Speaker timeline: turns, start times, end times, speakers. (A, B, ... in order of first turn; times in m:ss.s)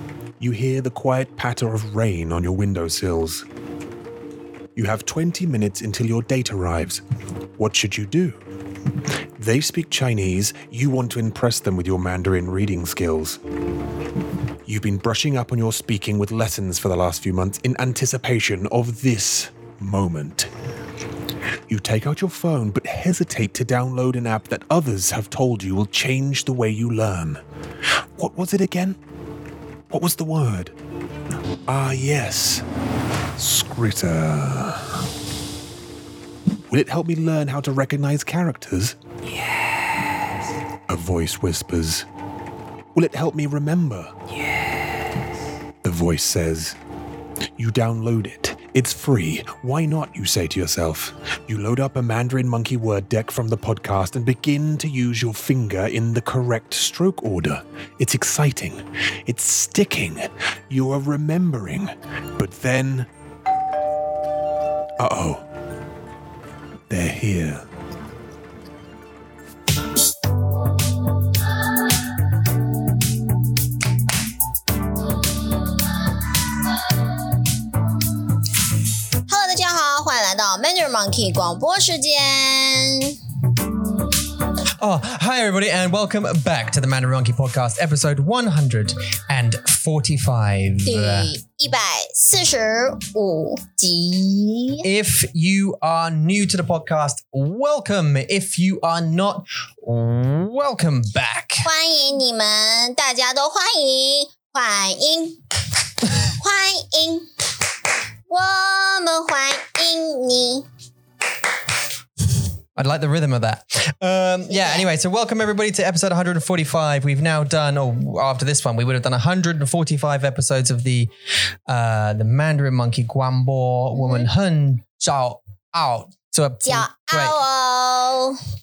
0:00.4-0:03.4 A
0:04.8-0:07.0 A
0:07.6-0:08.4 A
0:09.4-0:13.4 A
0:14.6-0:20.5 A
0:21.7-0:27.4 A
0:28.2-0:29.0 A
0:29.9-0:30.7 A
0:31.7-0:32.6 A
0:33.4-0:35.0 A
0:36.7-0:39.0 A
0:40.9-0:42.0 A
0:42.9-0:44.6 A
0:45.8-0:46.8 A
0:47.6-1:03.1 A
1:05.0-1:05.4 A
1:06.9-1:07.6 A
1:19.3-1:23.2 B
1:24.8-1:31.3 C
1:30.8-1:34.9 B
1:34.8-1:41.7 C
1:41.6-1:45.4 B
1:46.0-1:47.3 B
1:48.3-1:50.6 B
1:52.8-2:07.4 C
1:54.5-1:54.9 B
2:03.9-2:04.3 B
2:06.6-2:08.4 B